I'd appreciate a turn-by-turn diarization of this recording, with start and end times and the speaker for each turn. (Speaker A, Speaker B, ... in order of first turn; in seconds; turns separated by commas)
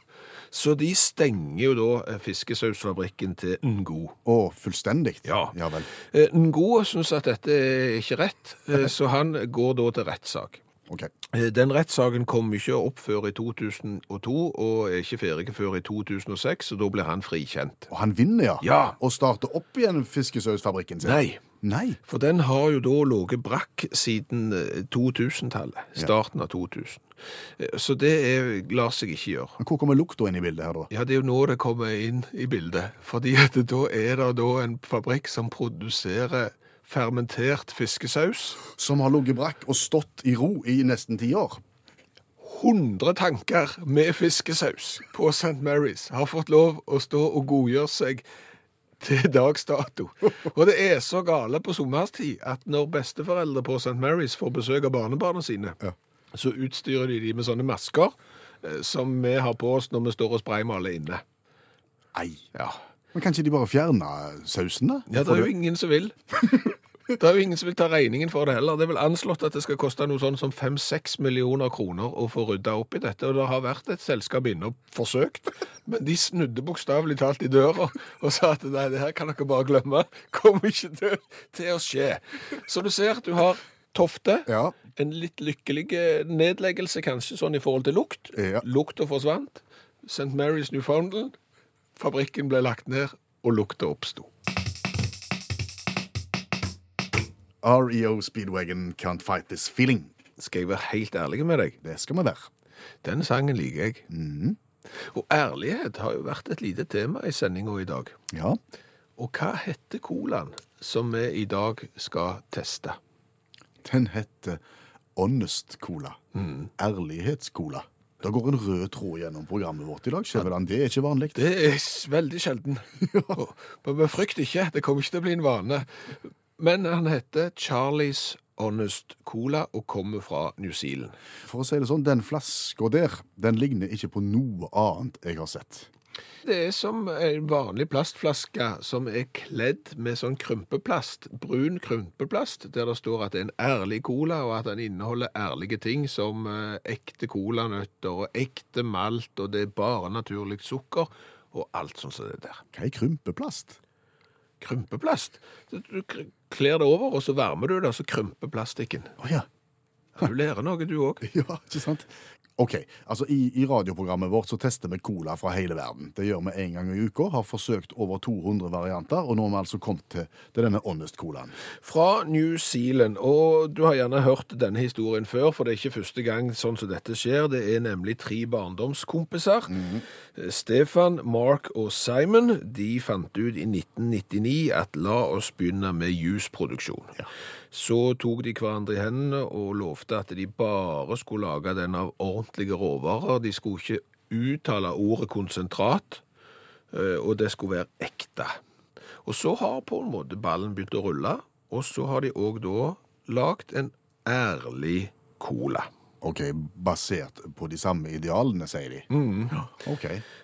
Speaker A: 0.5-4.2, Speaker B: 4.2-5.9, Speaker A: 5.2-10.6, Speaker A: 11.3-17.9, Speaker B: 17.9-22.0, Speaker A: 18.6-18.9, Speaker A: 21.0-21.4, Speaker A: 22.1-27.1, Speaker A: 27.6-29.6, Speaker B: 29.6-30.9, Speaker A: 30.9-38.6, Speaker B: 38.6-41.6, Speaker A: 42.4-48.2, Speaker A: 49.0-55.8, Speaker A: 56.3-61.2, Speaker B: 62.1-62.5, Speaker B: 63.1-65.5, Speaker A: 65.1-91.4, Speaker B: 84.5-84.7, Speaker B: 88.3-88.6, Speaker A: 92.0-94.3, Speaker B: 97.6-100.1, Speaker A: 100.4-101.8, Speaker B: 101.8-102.5, Speaker A: 103.0-104.0, Speaker B: 104.1-104.6, Speaker A: 105.0-108.2, Speaker B: 108.3-108.6, Speaker A: 109.2-113.0, Speaker B: 113.8-114.6, Speaker B: 115.2-116.2, Speaker A: 116.3-116.7, Speaker B: 116.8-121.4, Speaker A: 121.3-126.0, Speaker B: 123.0-123.4, Speaker A: 126.6-131.2, Speaker B: 131.4-135.9, Speaker A: 136.4-152.6, Speaker B: 152.7-153.8, Speaker A: 154.6-159.2, Speaker B: 159.2-159.4, Speaker A: 160.2-161.3, Speaker B: 161.2-171.5, Speaker A: 171.8-179.8, Speaker B: 179.7-180.0, Speaker A: 180.3-196.2, Speaker A: 196.9-198.6, Speaker A: 199.2-205.9, Speaker B: 206.2-209.1, Speaker A: 209.1-209.7, Speaker B: 209.7-210.2